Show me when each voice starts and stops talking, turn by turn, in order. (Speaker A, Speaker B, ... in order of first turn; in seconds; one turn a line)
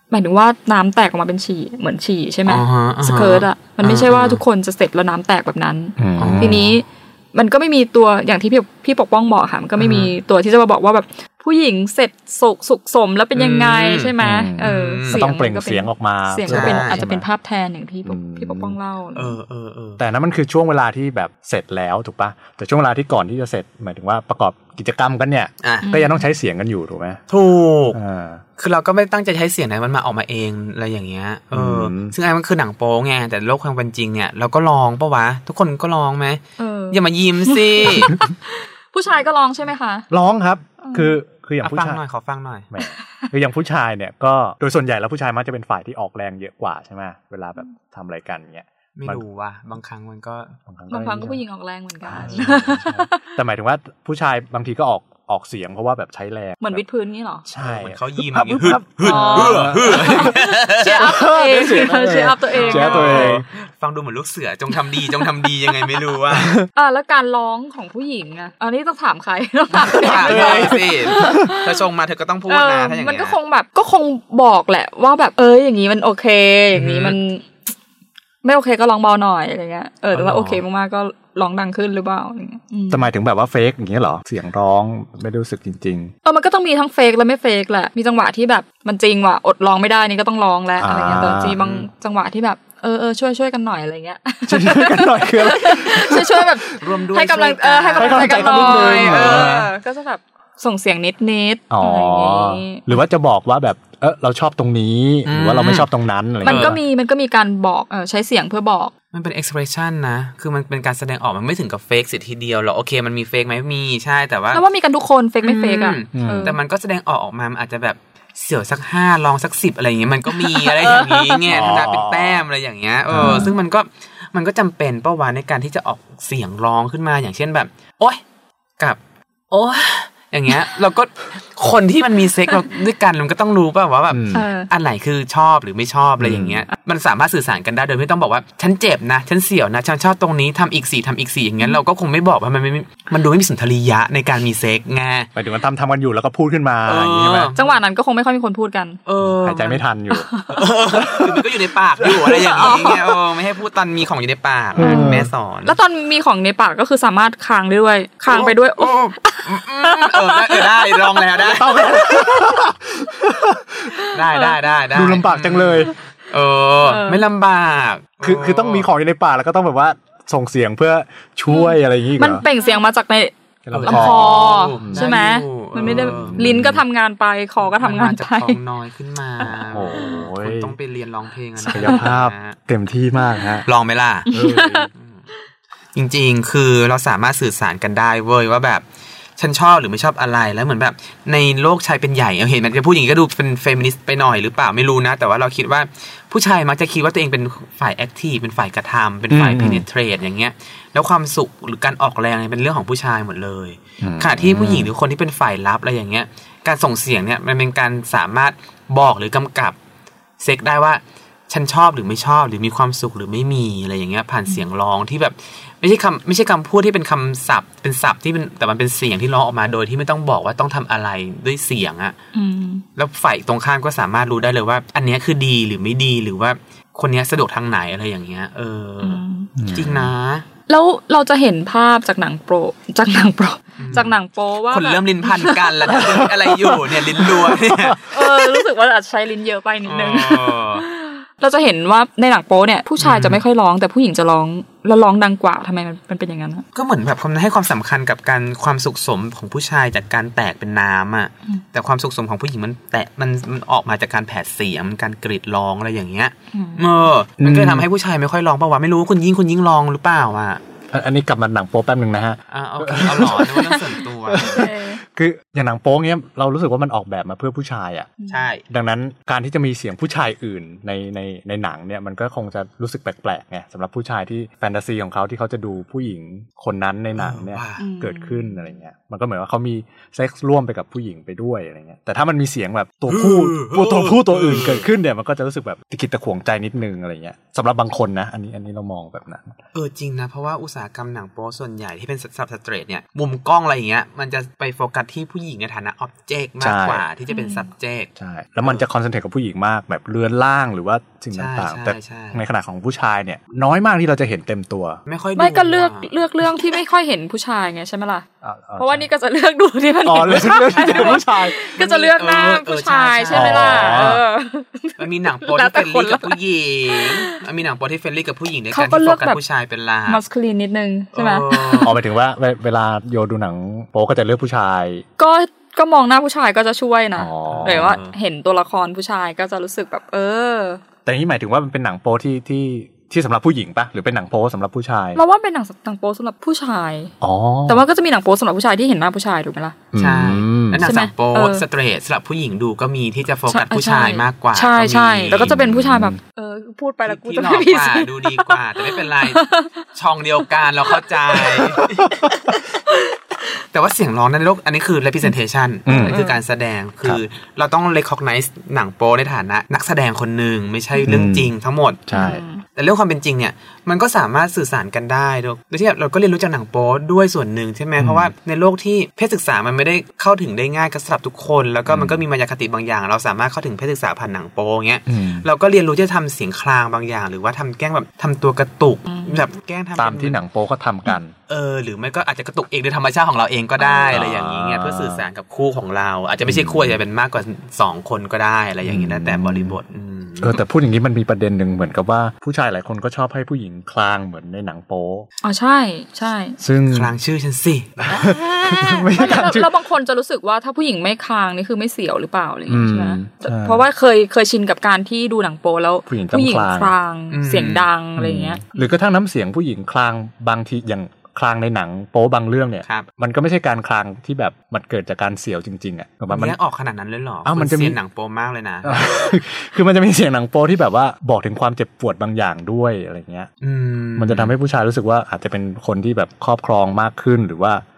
Speaker A: 0.1-19.4
Speaker B: 2.5-4.4
Speaker C: 6.0-6.7
Speaker B: 6.2-6.7
Speaker B: 9.8-10.1
Speaker B: 13.3-15.2
Speaker C: 14.2-17.2
Speaker B: 16.5-17.0
Speaker C: 18.1-18.8
Speaker B: 19.1-20.0
Speaker C: 20.0-27.2
Speaker B: 25.6-25.9
Speaker A: 25.8-26.2
Speaker B: 27.3-28.0
Speaker C: 27.9-28.4
Speaker B: 28.6-38.2
Speaker C: 31.5-32.1
Speaker A: 36.6-40.1
Speaker C: 40.1-42.0
Speaker A: 40.8-41.1
Speaker B: 41.6-42.7
Speaker C: 42.7-49.2
Speaker B: 49.0-50.6
Speaker C: 50.7-51.4
Speaker A: 50.9-53.2
Speaker C: 52.0-56.8
Speaker B: 52.1-52.8
Speaker A: 56.6-57.4
Speaker C: 57.5-63.5
Speaker B: 57.6-61.8
Speaker A: 59.0-63.4
Speaker B: 62.5-66.6
Speaker A: 66.7-71.8
Speaker B: 69.8-73.4
Speaker C: 70.0-71.5
Speaker A: 72.5-77.5
Speaker B: 76.7-77.2
Speaker A: 78.4-83.1
Speaker C: 80.2-80.6
Speaker C: 82.9-86.1
Speaker A: 86.2-103.0
Speaker C: 90.8-91.6
Speaker B: 91.1-91.9
Speaker C: 94.5-96.6
Speaker B: 96.8-99.7
Speaker C: 98.0-99.7
Speaker C: 101.7-106.8
Speaker B: 105.2-105.9
Speaker A: 106.4-108.9
Speaker B: 106.4-106.8
Speaker B: 109.1-114.6
Speaker A: 114.5-116.6
Speaker B: 115.4-128.2
Speaker C: 116.1-116.5
Speaker A: 120.3-121.4
Speaker C: 121.5-122.5
Speaker C: 123.1-123.5
Speaker A: 123.2-123.5
Speaker B: 129.5-145.3
Speaker C: 134.1-134.4
Speaker A: 134.3-134.7
Speaker C: 136.2-136.6
Speaker C: 145.3-147.5
Speaker B: 146.8-147.8
Speaker A: 147.6-149.0
Speaker B: 149.1-149.8
Speaker C: 149.2-150.3
Speaker A: 150.1-150.7
Speaker B: 150.5-155.8
Speaker C: 151.0-151.3
Speaker A: 152.2-153.1
Speaker C: 154.8-155.3
Speaker A: 154.8-161.3
Speaker B: 158.3-162.3
Speaker C: 161.4-164.0
Speaker A: 161.9-162.5
Speaker A: 163.9-164.6
Speaker B: 164.1-168.9
Speaker C: 164.9-165.9
Speaker A: 166.8-167.2
Speaker C: 168.2-172.4
Speaker A: 171.5-178.6
Speaker C: 173.7-175.1
Speaker B: 173.7-176.7
Speaker C: 175.8-176.8
Speaker B: 177.6-182.6
Speaker A: 179.4-180.2
Speaker C: 179.7-180.8
Speaker A: 181.6-182.0
Speaker C: 181.7-183.7
Speaker A: 183.2-183.6
Speaker B: 183.7-184.3
Speaker A: 184.3-184.9
Speaker C: 184.3-184.9
Speaker B: 184.9-185.3
Speaker B: 185.9-188.8
Speaker B: 189.4-209.8
Speaker C: 199.3-199.8
Speaker C: 204.0-204.9
Speaker B: 210.4-222.1
Speaker A: 222.3-222.8
Speaker B: 222.9-230.4
Speaker A: 229.0-229.5
Speaker C: 229.6-230.1
Speaker A: 230.7-235.8
Speaker B: 233.8-234.1
Speaker B: 234.7-238.1
Speaker C: 236.0-237.9
Speaker A: 238.0-246.6
Speaker B: 239.8-240.8
Speaker B: 243.0-243.4
Speaker B: 246.7-260.6
Speaker A: 256.5-256.9
Speaker C: 257.4-257.9
Speaker C: 260.9-268.1
Speaker B: 262.5-264.7
Speaker A: 264.4-265.0
Speaker A: 268.2-268.5
Speaker B: 268.3-268.6
Speaker C: 268.7-289.6
Speaker B: 277.2-277.8
Speaker A: 277.8-278.8
Speaker B: 283.1-284.9
Speaker B: 289.7-298.1
Speaker C: 296.6-297.0
Speaker A: 297.3-297.7
Speaker C: 298.2-305.0
Speaker B: 301.3-302.4
Speaker B: 305.1-306.7
Speaker A: 305.4-308.2
Speaker C: 308.4-309.1
Speaker A: 308.8-317.4
Speaker C: 310.0-311.6
Speaker B: 310.3-314.2
Speaker C: 313.3-314.2
Speaker B: 315.0-320.2
Speaker A: 318.7-319.4
Speaker A: 320.1-321.9
Speaker B: 321.1-322.0
Speaker C: 321.8-325.0
Speaker A: 325.2-330.8
Speaker C: 327.1-328.0
Speaker B: 327.5-328.1
Speaker C: 331.1-335.2
Speaker A: 335.1-337.1
Speaker C: 337.2-337.8
Speaker A: 337.7-339.8
Speaker C: 339.9-340.8
Speaker B: 339.9-345.5
Speaker A: 340.8-341.6
Speaker A: 343.5-349.9
Speaker C: 345.3-346.2
Speaker B: 347.0-352.2
Speaker A: 350.9-353.1
Speaker B: 353.7-380.4
Speaker C: 355.9-356.2
Speaker A: 355.9-356.4
Speaker C: 361.0-361.5
Speaker C: 362.1-362.4
Speaker A: 362.1-362.6
Speaker C: 368.0-368.3
Speaker C: 371.9-372.2
Speaker C: 375.1-375.4
Speaker A: 379.1-379.4
Speaker C: 379.9-381.3
Speaker B: 381.5-390.6
Speaker A: 383.8-384.2
Speaker C: 384.1-385.2
Speaker C: 386.4-387.0
Speaker C: 388.8-389.8
Speaker C: 390.4-395.3
Speaker A: 395.4-396.6
Speaker C: 396.6-397.1
Speaker B: 396.9-398.0
Speaker C: 398.0-399.7
Speaker A: 398.1-408.9
Speaker C: 402.7-403.8
Speaker C: 406.1-406.9
Speaker B: 407.3-407.9
Speaker C: 408.2-416.6
Speaker B: 416.3-419.3
Speaker C: 417.4-418.0
Speaker C: 418.8-423.5
Speaker B: 423.6-424.5
Speaker C: 424.2-427.8